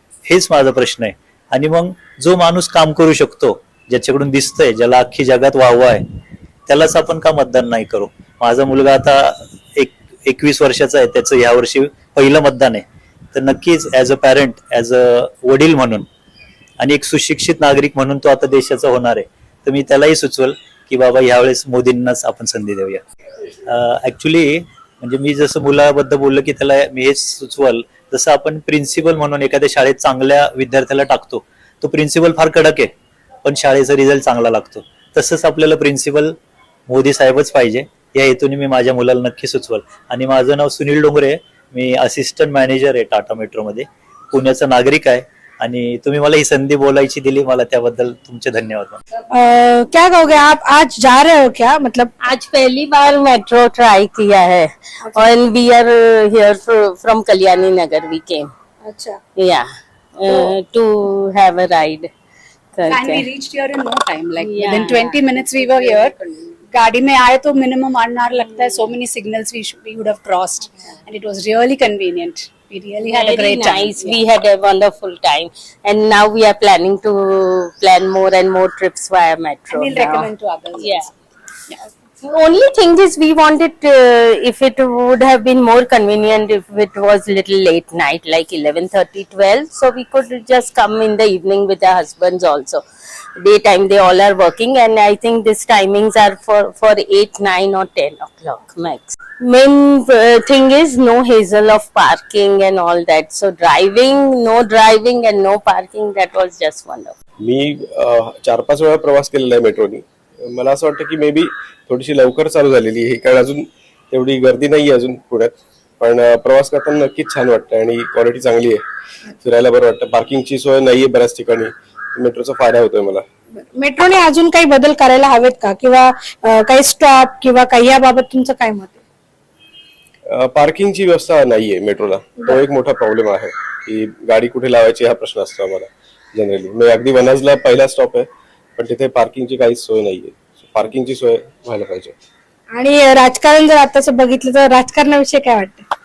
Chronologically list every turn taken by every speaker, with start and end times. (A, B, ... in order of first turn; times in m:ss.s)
0:00.3-0:06.0 A
0:06.7-0:16.1 A
0:16.8-0:23.0 A
0:23.7-0:32.9 A
0:33.4-0:36.3 A
0:36.9-0:49.0 A
0:49.3-0:52.1 B
0:52.2-0:58.5 C
0:58.8-0:59.2 B
0:59.4-1:02.1 C
1:02.8-1:03.3 C
1:02.9-1:14.2 D
1:04.4-1:05.2 C
1:13.0-1:21.1 C
1:19.7-1:21.1 D
1:22.2-1:32.8 C
1:33.4-1:47.2 C
1:47.4-1:58.8 E
1:59.4-2:03.2 E
2:03.6-2:09.0 B
2:10.3-2:22.1 E
2:22.8-2:25.8 B